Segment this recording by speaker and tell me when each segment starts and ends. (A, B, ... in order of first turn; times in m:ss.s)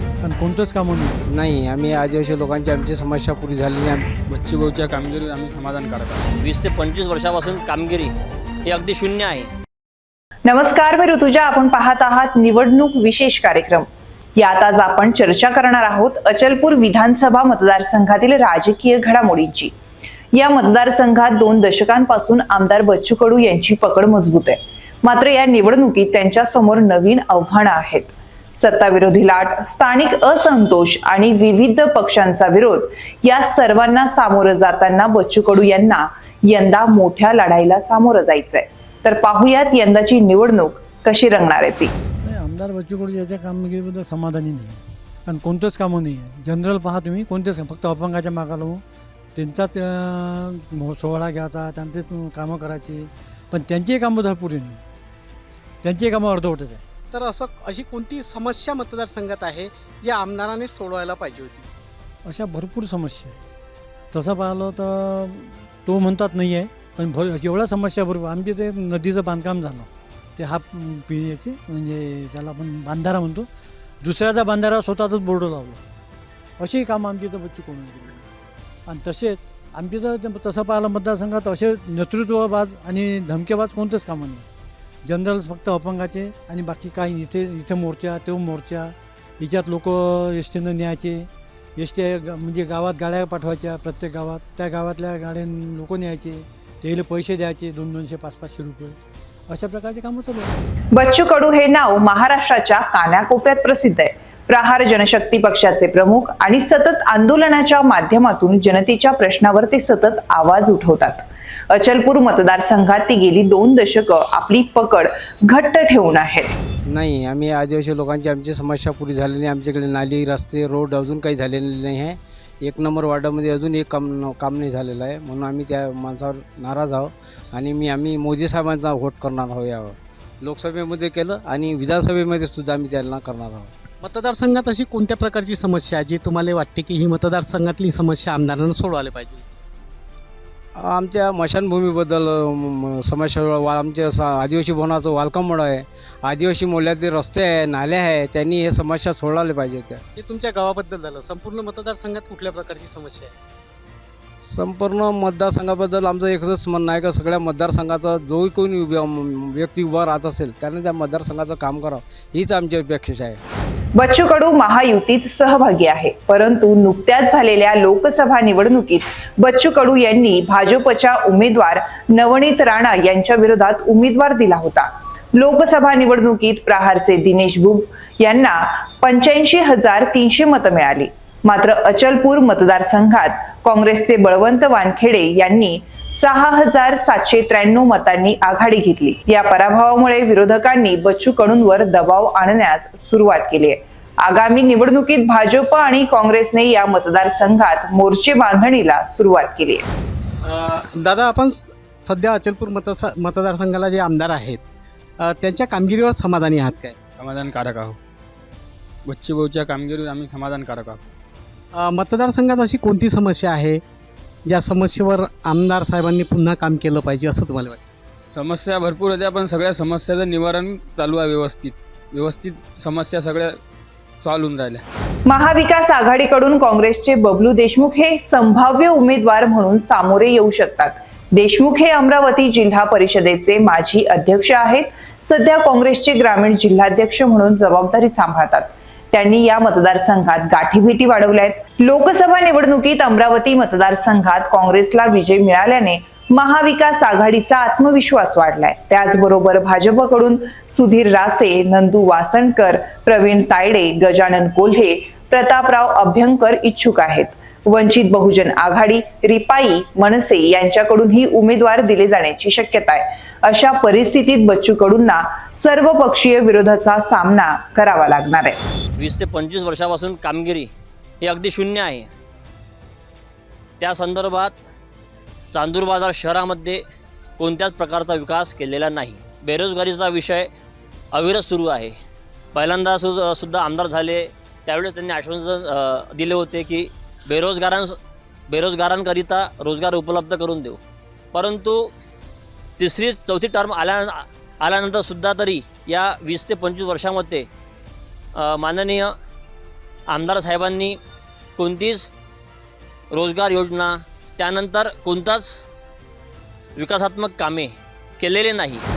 0:00.2-0:01.2 A
0:01.3-0:04.0 B
0:04.3-0:06.2 C
0:06.4-0:08.1 D
0:08.6-0:09.5 D
0:10.4-0:19.7 E
0:20.3-0:41.9 E
0:42.2-0:48.8 A
0:49.3-0:54.8 A
0:55.8-0:56.8 A
0:57.1-1:01.7 F
1:02.2-1:03.4 A
1:04.1-1:13.5 A
1:14.0-1:15.8 A
1:16.6-1:18.3 A
1:18.9-1:24.5 A
1:25.0-1:40.5 A
1:40.9-1:56.5 E
1:56.9-2:13.7 B
2:14.0-2:19.4 F
2:20.8-2:30.0 B
2:30.2-2:33.3 F
2:34.5-2:43.4 B
2:44.0-3:19.8 E
3:20.4-3:24.6 F
3:25.2-3:27.0 F
3:27.2-3:28.0 C
3:29.1-3:31.0 C
3:31.7-3:33.8 F
3:34.5-3:37.8 F
3:38.3-3:43.5 C
3:44.2-3:44.8 C
3:45.3-4:28.6 E
4:29.0-4:30.7 D
4:31.2-4:32.1 D
4:33.8-4:34.6 D
4:35.5-4:36.8 D
4:37.4-4:40.5 D
4:41.1-4:41.9 D
4:42.5-4:48.0 D
4:48.5-4:50.8 D
4:51.3-4:51.8 D
4:52.8-4:57.5 D
4:58.4-4:59.1 D
5:00.1-5:01.0 D
5:01.6-5:02.1 D
5:03.1-5:05.5 D
5:06.8-5:08.8 D